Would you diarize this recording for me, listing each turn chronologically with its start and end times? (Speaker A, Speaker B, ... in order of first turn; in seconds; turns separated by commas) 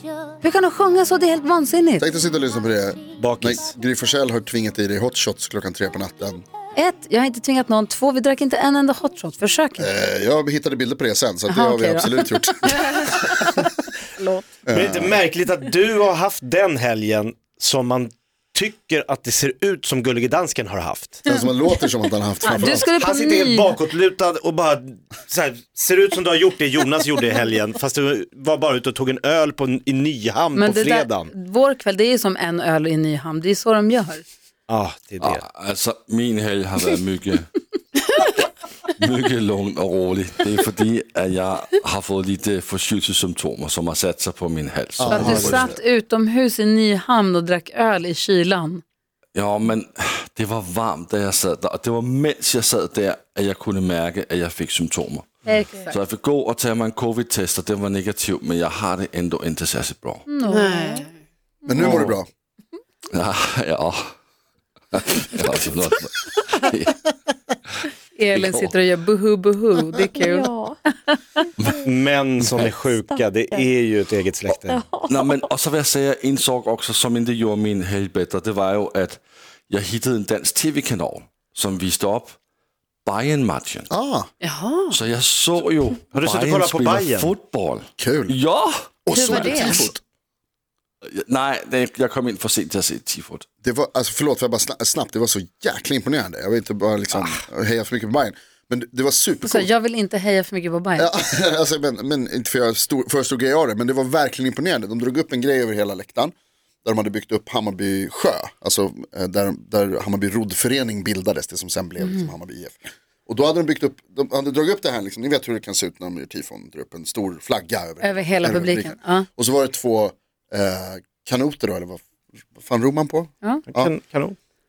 Speaker A: 0.4-2.1, Speaker B: 2.0-6.5, Speaker C: 3.2-3.8, Speaker A: 6.8-9.9, Speaker B: 9.8-13.7, Speaker A: 11.5-13.5, Speaker A: 14.2-14.5, Speaker B: 14.7-15.2, Speaker C: 14.7-21.2, Speaker B: 21.2-22.9, Speaker A: 22.4-23.8, Speaker C: 22.5-31.3, Speaker A: 30.5-34.2, Speaker C: 34.7-35.4, Speaker D: 35.2-37.5, Speaker D: 38.9-45.7, Speaker B: 45.0-45.8, Speaker A: 45.1-48.8, Speaker D: 49.3-60.2, Speaker A: 55.5-55.9, Speaker A: 60.3-61.0, Speaker E: 60.5-61.1, Speaker B: 61.7-62.3, Speaker C: 61.8-62.2, Speaker D: 63.1-64.2, Speaker D: 64.9-67.1, Speaker D: 67.7-68.7, Speaker A: 68.2-71.2, Speaker C: 71.8-74.9, Speaker D: 72.4-72.7, Speaker D: 75.0-82.4, Speaker D: 83.0-83.9, Speaker B: 83.9-84.3, Speaker E: 84.4-85.0, Speaker D: 84.9-89.7, Speaker C: 86.1-87.3, Speaker B: 88.0-88.3, Speaker B: 89.1-90.0, Speaker A: 89.2-89.9, Speaker E: 89.3-89.9, Speaker D: 91.1-93.5, Speaker B: 93.6-99.7, Speaker C: 97.2-97.4, Speaker A: 99.4-101.1, Speaker B: 101.0-106.3, Speaker B: 106.8-122.0, Speaker A: 112.0-112.3, Speaker A: 118.0-119.3, Speaker B: 122.5-123.9, Speaker C: 123.7-124.4